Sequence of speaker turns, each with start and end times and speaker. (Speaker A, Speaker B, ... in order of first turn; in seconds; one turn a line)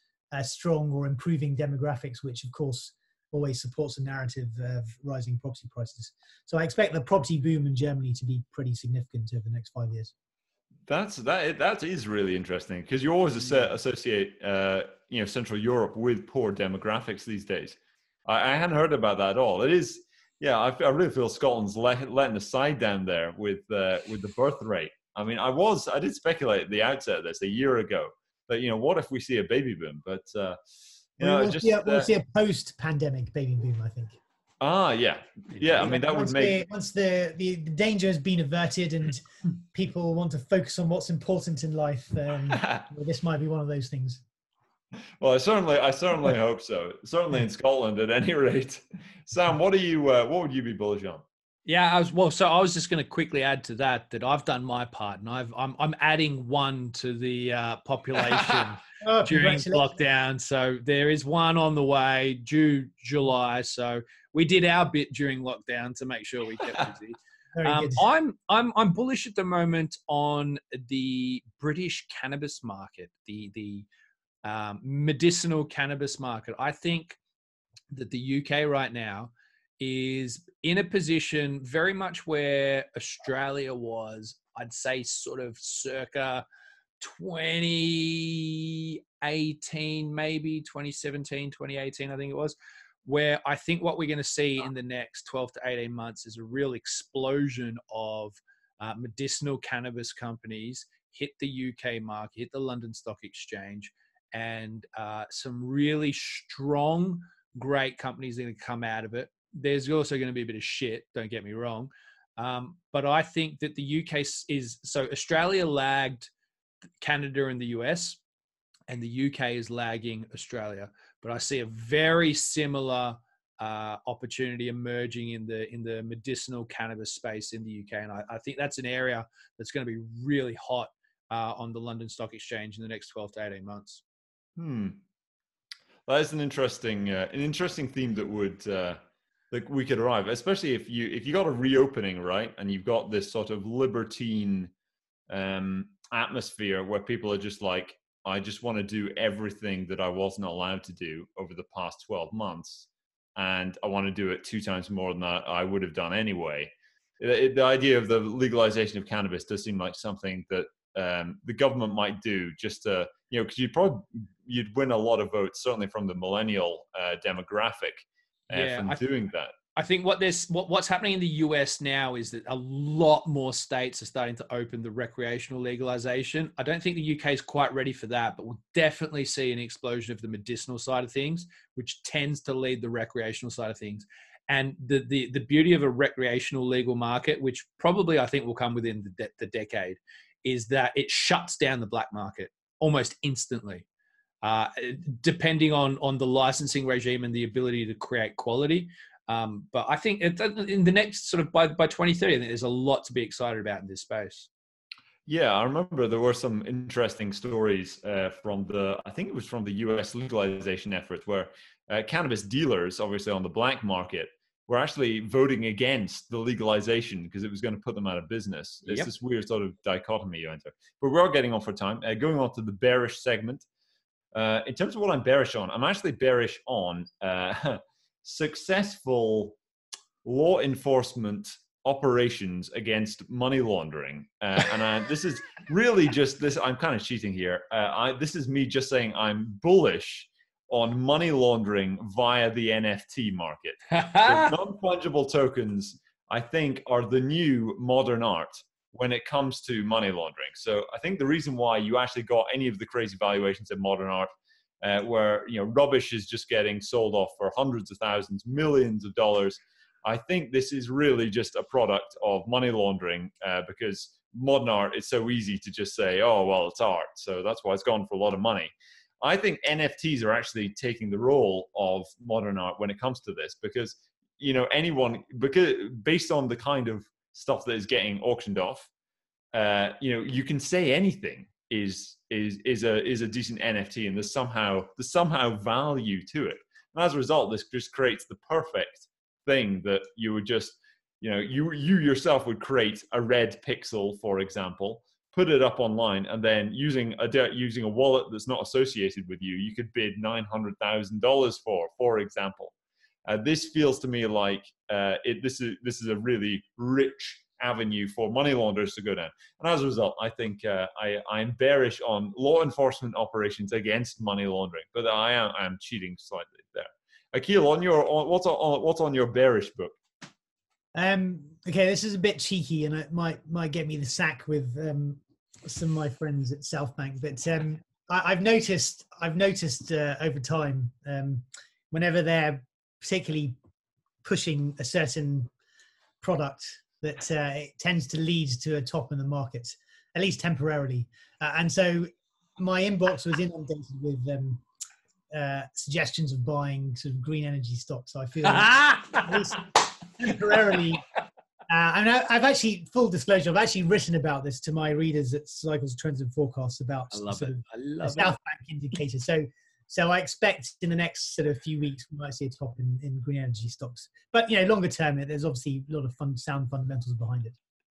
Speaker A: 0.3-10.1
Speaker B: 10.9-30.6
Speaker B: 31.2-32.1
Speaker A: 31.2-34.2
Speaker B: 34.6-36.6
Speaker A: 35.8-44.2
Speaker B: 42.6-42.8
Speaker B: 45.2-51.2
Speaker C: 51.7-73.9
Speaker A: 59.0-60.0
Speaker A: 67.6-68.0
Speaker C: 74.4-77.2
Speaker C: 77.9-86.4
Speaker C: 87.0-116.3
Speaker C: 117.0-118.2
Speaker C: 118.9-134.0
Speaker B: 134.6-135.0
Speaker B: 136.1-139.0
Speaker B: 139.5-144.7
Speaker B: 145.3-169.6
Speaker C: 168.5-169.0
Speaker C: 169.8-193.8
Speaker C: 194.4-204.5
Speaker B: 205.3-223.7
Speaker B: 224.3-229.6
Speaker B: 230.2-254.3
Speaker C: 243.9-244.5
Speaker B: 254.8-278.9
Speaker B: 279.5-302.7
Speaker B: 303.3-320.0
Speaker A: 320.9-333.6
Speaker A: 334.2-335.5
Speaker A: 336.2-344.6
Speaker A: 345.3-351.1
Speaker C: 348.5-349.3
Speaker A: 351.7-367.6
Speaker C: 357.1-358.3